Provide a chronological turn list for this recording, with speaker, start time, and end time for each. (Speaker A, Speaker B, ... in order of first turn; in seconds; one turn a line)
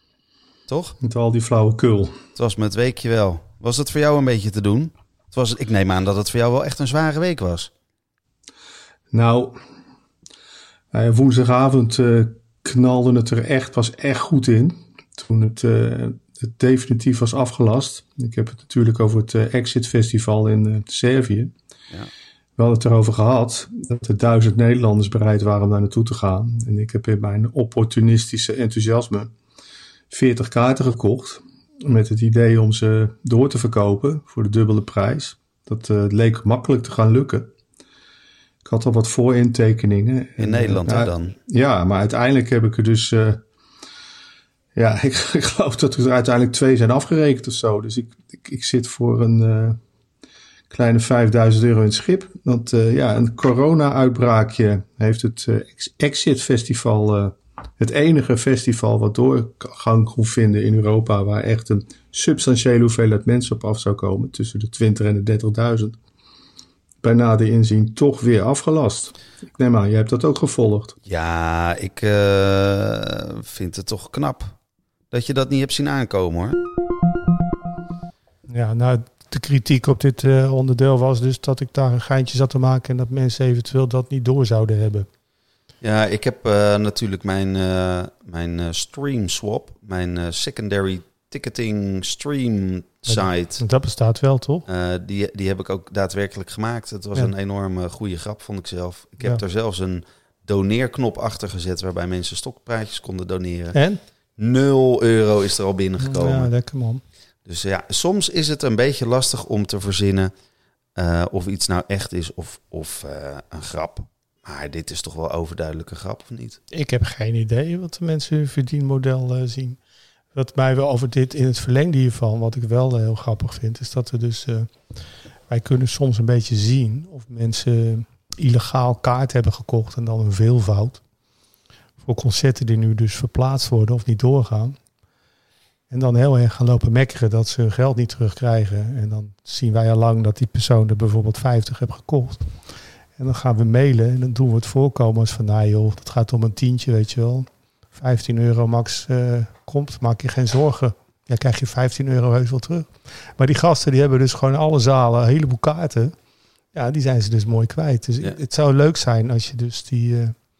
Speaker A: 0.7-1.0
Speaker B: 1.0-2.1
Speaker A: 2.4-7.7
Speaker B: 11.0-11.9
Speaker B: 12.6-14.4
Speaker B: 15.3-21.4
Speaker B: 22.6-29.3
Speaker B: 30.1-37.5
Speaker B: 38.6-43.4
Speaker A: 40.4-41.4
Speaker B: 44.8-49.8
Speaker B: 50.7-65.9
Speaker B: 67.0-70.9
Speaker A: 71.1-74.6
Speaker A: 75.1-76.6
Speaker C: 78.5-85.1
Speaker A: 85.8-93.6
Speaker C: 93.1-94.7
Speaker A: 94.7-103.8
Speaker C: 103.7-104.0
Speaker A: 104.4-106.5
Speaker C: 106.0-107.0
Speaker A: 107.5-110.3
Speaker A: 111.0-116.6
Speaker C: 116.7-119.8
Speaker C: 120.3-124.7
Speaker C: 125.5-131.0
Speaker C: 132.0-134.8
Speaker C: 135.9-142.5
Speaker C: 143.2-156.1
Speaker C: 156.7-160.3